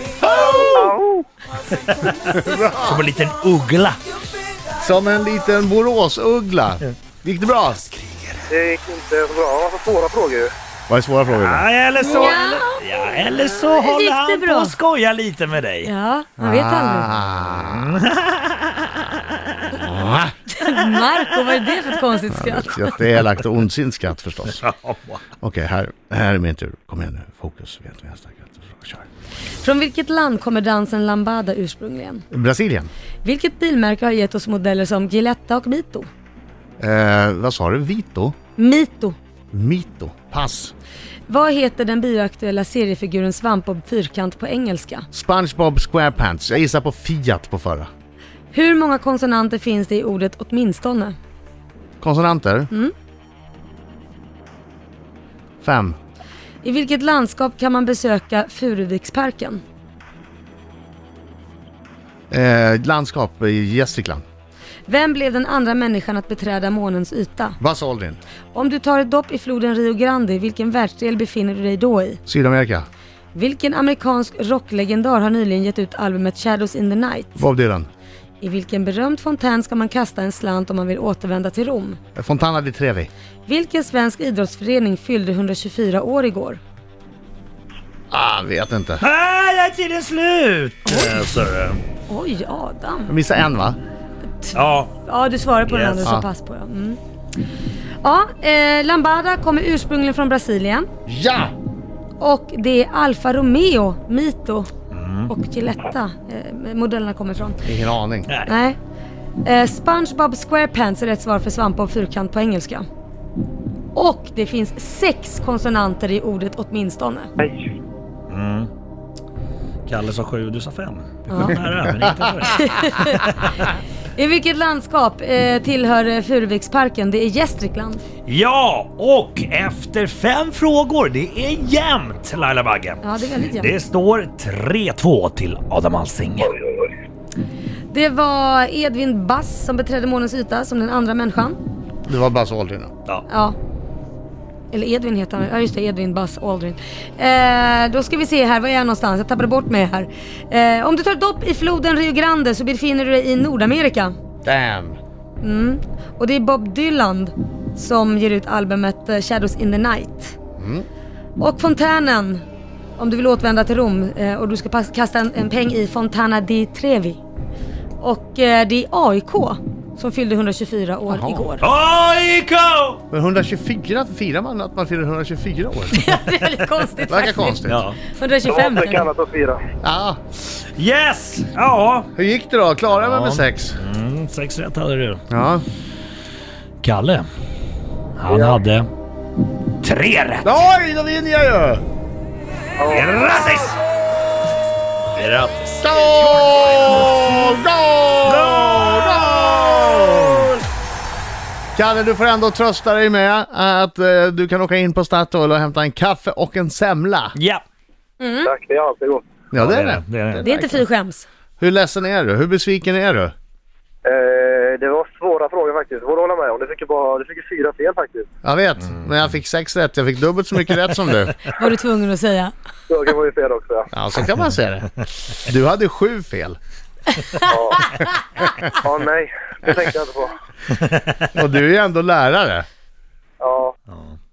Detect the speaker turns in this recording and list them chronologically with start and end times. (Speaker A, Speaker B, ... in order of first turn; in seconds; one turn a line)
Speaker A: 0.2-0.9
Speaker B: 0.5-1.3
Speaker C: 1.8-4.0
Speaker A: 2.3-3.0
Speaker A: 4.7-7.8
Speaker B: 8.5-10.5
Speaker A: 10.9-11.7
Speaker C: 11.3-15.9
Speaker D: 12.0-12.8
Speaker D: 13.6-14.7
Speaker D: 15.8-17.2
Speaker A: 16.4-17.9
Speaker C: 17.6-19.7
Speaker A: 19.7-20.3
Speaker D: 20.5-22.9
Speaker A: 22.3-24.6
Speaker C: 24.5-25.2
Speaker A: 25.4-29.0
Speaker D: 29.6-32.2
Speaker A: 32.3-32.9
Speaker D: 33.2-36.1
Speaker A: 36.8-38.3
Speaker D: 38.6-39.1
Speaker A: 39.5-40.7
Speaker D: 41.3-45.1
Speaker A: 45.1-47.9
Speaker D: 48.5-51.1
Speaker A: 52.0-52.7
Speaker A: 55.6-56.0
Speaker D: 56.6-59.6
Speaker A: 62.3-64.2
Speaker D: 64.9-67.6
Speaker A: 67.6-68.2
Speaker D: 68.5-72.2
Speaker A: 72.2-72.9
Speaker D: 73.3-77.4
Speaker A: 77.4-77.9
Speaker D: 78.4-82.0
Speaker A: 82.1-83.1
Speaker D: 83.5-86.6
Speaker A: 88.1-89.0
Speaker C: 89.0-91.8
Speaker D: 92.1-93.1
Speaker A: 93.1-93.8
Speaker D: 94.4-97.0
Speaker C: 94.5-94.9
Speaker C: 95.7-96.1
Speaker D: 98.0-100.9
Speaker A: 101.0-101.5
Speaker D: 102.2-104.7
Speaker C: 104.9-105.3
Speaker D: 105.3-107.6
Speaker A: 107.6-108.3
Speaker C: 108.3-108.5
Speaker D: 108.5-108.8
Speaker D: 109.4-112.8
Speaker D: 113.9-117.3
Speaker B: 117.4-117.7
Speaker C: 118.3-118.7
Speaker C: 119.8-123.5
Speaker D: 122.5-123.3
Speaker D: 124.1-128.0
Speaker C: 128.2-136.5
Speaker D: 133.0-133.7
Speaker B: 136.4-136.9
Speaker D: 137.9-141.6
Speaker A: 142.1-142.9
Speaker D: 143.3-143.6
Speaker D: 144.7-154.1
Speaker A: 154.4-155.0
Speaker D: 155.4-160.4
Speaker A: 160.6-160.8
Speaker D: 161.4-162.4
Speaker D: 163.0-167.2
Speaker D: 168.0-171.6
Speaker A: 171.1-171.5
Speaker C: 171.6-173.0
Speaker A: 173.1-176.0
Speaker D: 175.9-179.1
Speaker A: 177.1-177.8
Speaker C: 177.7-178.0
Speaker B: 178.4-179.6
Speaker A: 179.8-180.2
Speaker C: 180.8-182.1
Speaker A: 182.1-183.8
Speaker C: 182.9-185.2
Speaker A: 185.3-185.7
Speaker C: 186.8-187.2
Speaker C: 188.2-188.9
Speaker B: 188.3-188.6
Speaker C: 189.8-190.6
Speaker A: 190.4-191.8
Speaker B: 192.8-193.1
Speaker C: 192.9-193.8
Speaker C: 195.1-197.1
Speaker A: 195.8-200.5
Speaker C: 198.3-199.7
Speaker A: 201.8-207.3
Speaker C: 207.3-207.6
Speaker D: 208.2-208.5
Speaker B: 208.4-209.2
Speaker A: 209.5-210.8
Speaker C: 209.6-210.4
Speaker D: 210.4-211.3
Speaker A: 211.6-213.3
Speaker B: 214.0-218.3
Speaker A: 218.4-221.3
Speaker D: 221.6-222.5
Speaker B: 222.9-223.9
Speaker A: 223.9-226.6
Speaker D: 227.2-227.5
Speaker B: 227.4-228.0
Speaker B: 228.8-230.4
Speaker C: 230.8-231.2
Speaker A: 231.3-232.7
Speaker B: 233.4-233.7
Speaker C: 233.9-234.1